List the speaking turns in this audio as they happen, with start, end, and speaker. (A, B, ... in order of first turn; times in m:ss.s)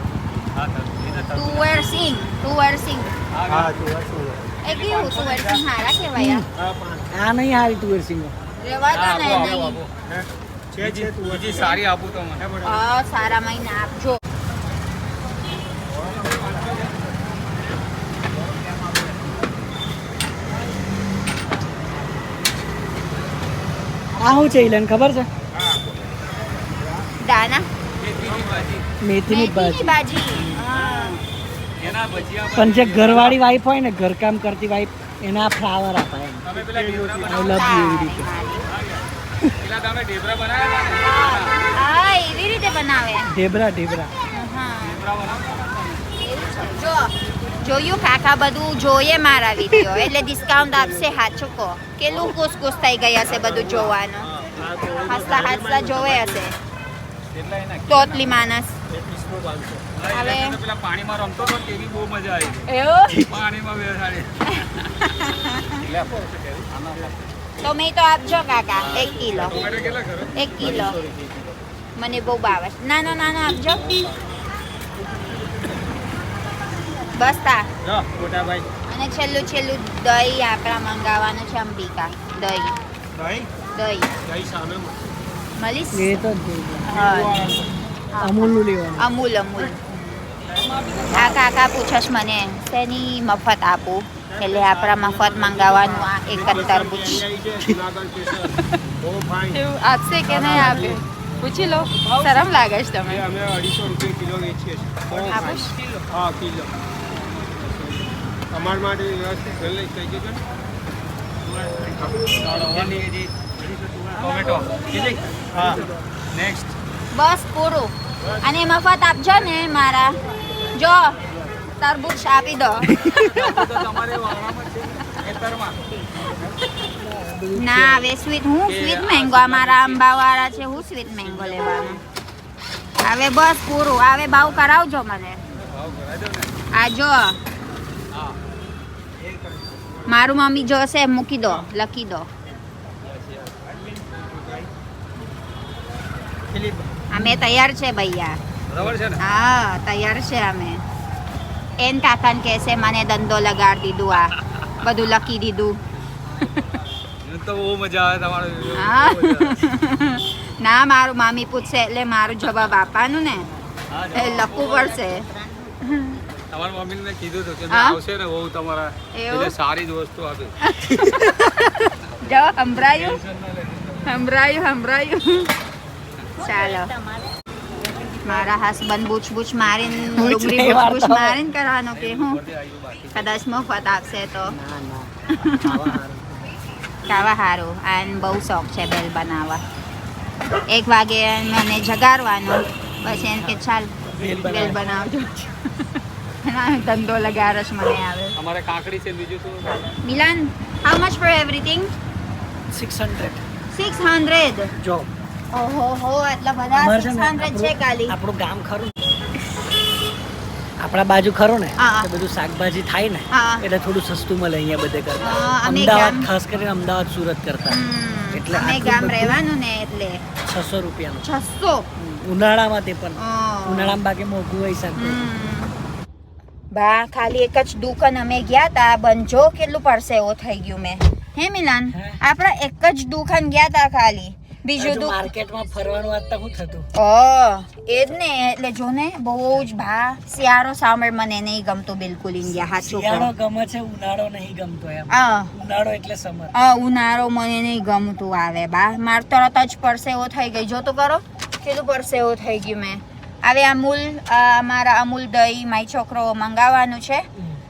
0:00.6-0:01.9 A
0:01.3-0:03.1 B
0:03.3-0:03.8 A
0:03.5-0:04.6 C
0:04.6-0:06.4 B
0:04.6-0:05.6 A
0:06.2-0:06.5 D
0:06.5-0:07.1 C
0:07.1-0:08.4 D
0:08.6-0:09.8 B
0:08.9-0:09.9 A
0:10.0-0:11.8 C
0:10.8-0:12.5 A
0:12.4-0:12.8 C
0:12.6-0:14.2 B
0:16.0-0:16.9 A
0:16.1-0:16.8 C
0:24.2-0:25.3 D
0:25.5-0:26.0 C
0:27.2-0:27.7 B
0:28.0-0:28.9 A
0:28.3-0:28.7 C
0:29.0-0:30.7 D
0:29.3-0:31.2 B
0:30.7-0:31.2 A
0:31.8-0:33.4 A
0:32.6-0:36.5 D
0:36.4-0:37.7 A
0:36.6-0:37.9 C
0:37.2-0:38.3 D
0:37.5-0:38.7 B
0:38.7-0:41.6 A
0:41.0-0:43.3 B
0:43.3-0:44.1 D
0:44.3-0:45.0 B
0:44.8-0:46.1 A
0:46.2-0:54.3 B
0:49.7-0:50.1 D
0:50.5-0:51.1 C
0:53.2-0:56.5 C
0:55.0-0:56.6 B
0:57.3-0:58.5 A
0:57.9-0:58.8 B
0:58.9-0:59.9 C
1:00.0-1:04.6 A
1:00.1-1:00.6 B
1:02.7-1:03.2 B
1:03.1-1:03.4 D
1:04.6-1:05.8 B
1:05.7-1:07.3 A
1:07.6-1:09.7 B
1:08.7-1:10.9 A
1:09.3-1:11.5 C
1:10.4-1:11.0 B
1:12.0-1:14.0 B
1:13.9-1:14.2 A
1:17.2-1:17.7 B
1:17.8-1:18.7 C
1:18.9-1:22.8 B
1:23.2-1:23.5 C
1:23.7-1:24.1 B
1:24.2-1:25.1 C
1:25.6-1:26.2 B
1:25.9-1:26.9 D
1:26.9-1:30.3 B
1:26.9-1:27.7 C
1:28.2-1:29.1 D
1:30.5-1:31.5 A
1:31.1-1:37.2 B
1:34.2-1:39.6 C
1:39.5-1:43.3 B
1:40.3-1:41.0 C
1:41.8-1:42.5 A
1:43.1-1:46.7 C
1:45.1-1:46.1 A
1:45.3-1:45.7 B
1:48.5-1:50.4 C
1:52.0-1:53.3 A
1:52.2-1:52.7 C
1:53.9-1:55.8 C
1:54.2-1:55.7 A
1:56.3-1:56.8 A
1:57.1-2:00.2 B
2:00.7-2:01.2 B
2:01.8-2:02.9 B
2:02.9-2:03.7 D
2:03.1-2:05.8 A
2:06.3-2:06.6 A
2:07.0-2:08.1 D
2:07.5-2:12.0 B
2:08.7-2:10.0 A
2:13.0-2:15.4 B
2:15.6-2:16.5 A
2:16.7-2:17.4 B
2:18.1-2:18.4 A
2:19.2-2:20.2 C
2:20.1-2:22.3 B
2:23.5-2:24.7 C
2:26.5-2:26.9 C
2:27.1-2:28.4 B
2:28.7-2:29.2 A
2:29.2-2:30.8 B
2:31.8-2:35.8 B
2:37.2-2:39.6 A
2:38.7-2:43.5 B
2:43.9-2:45.2 A
2:44.1-2:46.2 B
2:46.5-2:50.6 A
2:47.7-2:48.0 B
2:49.1-2:49.6 B
2:50.6-2:53.2 B
2:50.9-2:51.5 D
2:52.8-2:54.1 A
2:54.1-2:55.5 B
2:56.4-2:57.0 B
2:58.2-3:02.4 B
3:00.1-3:01.4 D
3:01.9-3:03.4 A
3:03.1-3:04.6 B
3:04.5-3:06.5 D
3:07.1-3:09.6 B
3:10.7-3:15.9 B
3:13.0-3:14.9 D
3:16.4-3:18.4 B
3:18.4-3:19.9 A
3:20.0-3:21.9 B
3:22.7-3:23.4 D
3:23.7-3:24.7 B
3:24.8-3:25.1 D
3:25.5-3:28.2 B
3:26.7-3:28.9 D
3:30.8-3:37.8 D
3:31.8-3:32.1 B
3:33.3-3:33.6 B
3:35.2-3:36.3 B
3:37.7-3:40.2 B
3:38.3-3:39.4 D
3:40.4-3:41.3 D
3:41.2-3:41.9 B
3:42.0-3:45.3 D
3:43.2-3:44.0 B
3:45.0-3:45.7 B
3:46.7-3:55.3 B
3:51.9-3:52.2 D
3:54.8-3:56.9 D
3:57.0-4:03.3 B
4:02.4-4:06.5 D
4:05.1-4:05.5 B
4:06.6-4:17.3 B